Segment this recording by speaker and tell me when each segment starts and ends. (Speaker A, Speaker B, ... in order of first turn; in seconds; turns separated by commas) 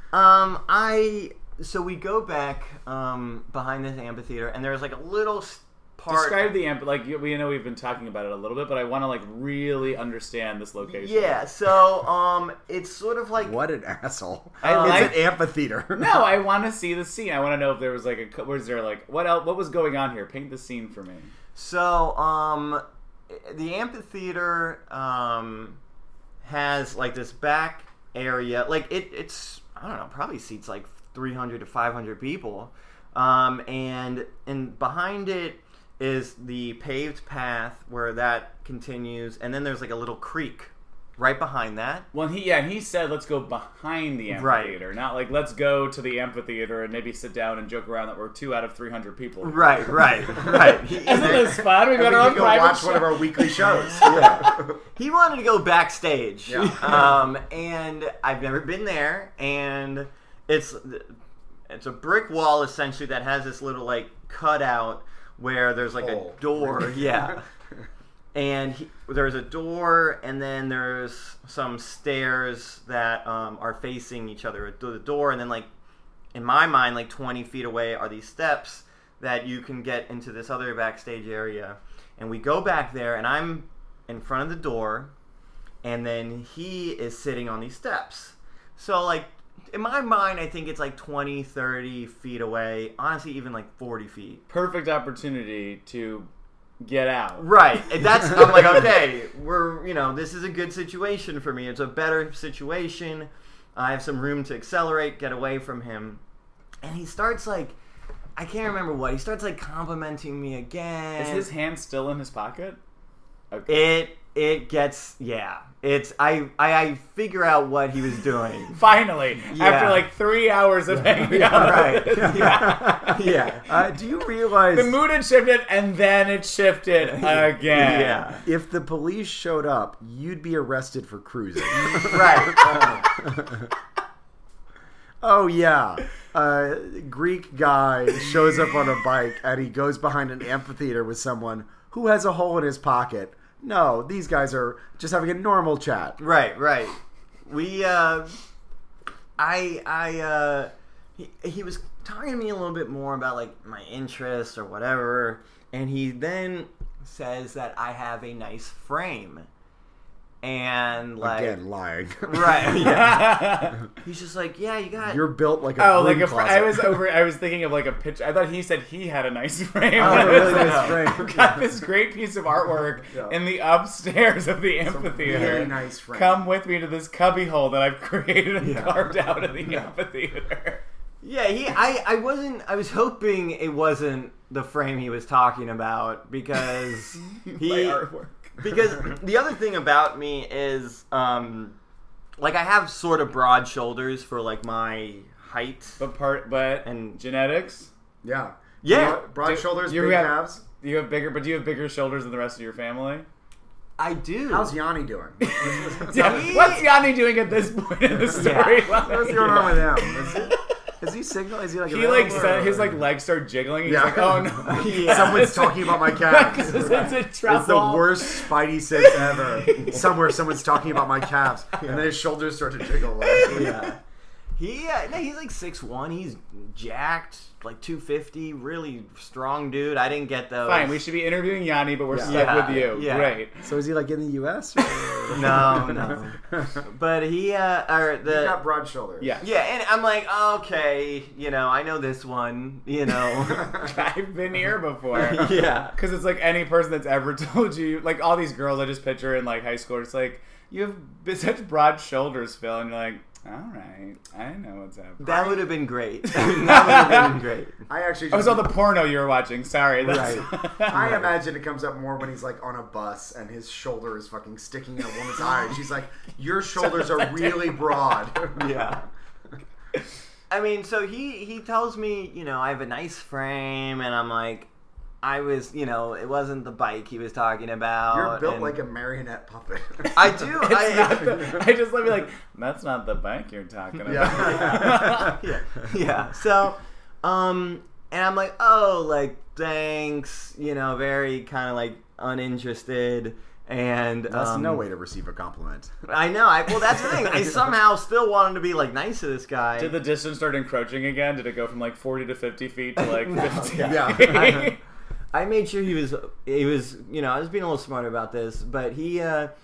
Speaker A: 0.1-6.5, Speaker B: 6.1-11.4, Speaker A: 10.8-13.6, Speaker C: 13.4-16.2, Speaker B: 14.6-15.2, Speaker A: 14.6-15.3, Speaker B: 15.9-21.3, Speaker A: 21.5-25.8, Speaker A: 26.4-42.1, Speaker B: 42.1-54.4, Speaker A: 44.3-44.8, Speaker A: 49.4-51.5, Speaker C: 51.1-54.8, Speaker A: 54.0-61.1, Speaker C: 56.5-57.2, Speaker A: 61.7-67.4, Speaker C: 66.0-67.4, Speaker A: 68.3-75.7, Speaker A: 76.3-85.1, Speaker A: 85.8-94.4, Speaker B: 94.5-96.3, Speaker B: 96.8-97.5, Speaker A: 97.4-106.2, Speaker A: 106.8-107.8, Speaker A: 108.3-111.5, Speaker B: 111.2-112.8, Speaker B: 113.5-113.9, Speaker A: 113.7-118.8, Speaker B: 118.7-123.2, Speaker A: 119.5-120.1, Speaker C: 120.9-125.0, Speaker A: 121.4-123.7, Speaker B: 124.7-128.3, Speaker A: 127.0-128.4, Speaker C: 128.4-133.7, Speaker B: 131.8-132.1, Speaker A: 132.0-133.0, Speaker C: 135.2-146.2, Speaker A: 146.2-148.3, Speaker A: 149.4-159.5, Speaker A: 160.4-161.6, Speaker C: 161.2-163.1, Speaker A: 162.2-163.5, Speaker B: 162.7-163.8, Speaker A: 164.0-165.2, Speaker C: 165.0-167.0, Speaker B: 165.8-180.8, Speaker A: 170.0-171.2, Speaker C: 170.0-171.8, Speaker C: 173.1-173.4, Speaker C: 174.9-176.4, Speaker A: 178.6-179.0, Speaker A: 181.2-188.0, Speaker B: 187.3-188.6, Speaker A: 188.6-191.8, Speaker A: 192.4-196.0, Speaker B: 196.0-197.9, Speaker A: 196.8-197.2, Speaker C: 198.2-200.6, Speaker A: 198.8-199.2, Speaker B: 199.4-203.3, Speaker A: 204.0-204.7, Speaker C: 204.5-206.8, Speaker B: 205.4-210.5, Speaker A: 206.1-206.8, Speaker A: 208.3-209.6, Speaker C: 208.9-213.0, Speaker B: 211.9-220.3, Speaker C: 213.8-223.8, Speaker A: 214.6-215.5, Speaker A: 221.8-222.1, Speaker B: 223.2-223.8, Speaker A: 223.4-224.0, Speaker A: 224.6-231.0, Speaker B: 230.6-233.7, Speaker C: 232.1-232.8, Speaker A: 232.2-233.4, Speaker C: 233.6-236.8, Speaker B: 235.0-235.3, Speaker A: 235.3-238.6, Speaker C: 238.2-239.4, Speaker B: 239.2-239.5, Speaker A: 239.4-243.8, Speaker C: 243.5-243.9, Speaker B: 243.7-255.6, Speaker A: 245.1-245.9, Speaker A: 255.2-257.8, Speaker B: 256.3-257.3, Speaker C: 257.9-258.7, Speaker B: 258.3-261.2, Speaker A: 260.0-260.5, Speaker C: 260.1-268.9, Speaker B: 266.8-268.0, Speaker A: 268.6-269.0, Speaker A: 270.5-274.7, Speaker A: 275.2-278.8, Speaker C: 278.1-280.5, Speaker A: 280.1-281.6, Speaker B: 280.6-285.4, Speaker C: 284.1-285.4, Speaker A: 284.2-294.8, Speaker C: 294.3-295.9, Speaker A: 296.1-299.9, Speaker B: 299.8-304.8, Speaker A: 303.0-304.8, Speaker C: 303.8-304.7, Speaker A: 305.3-309.5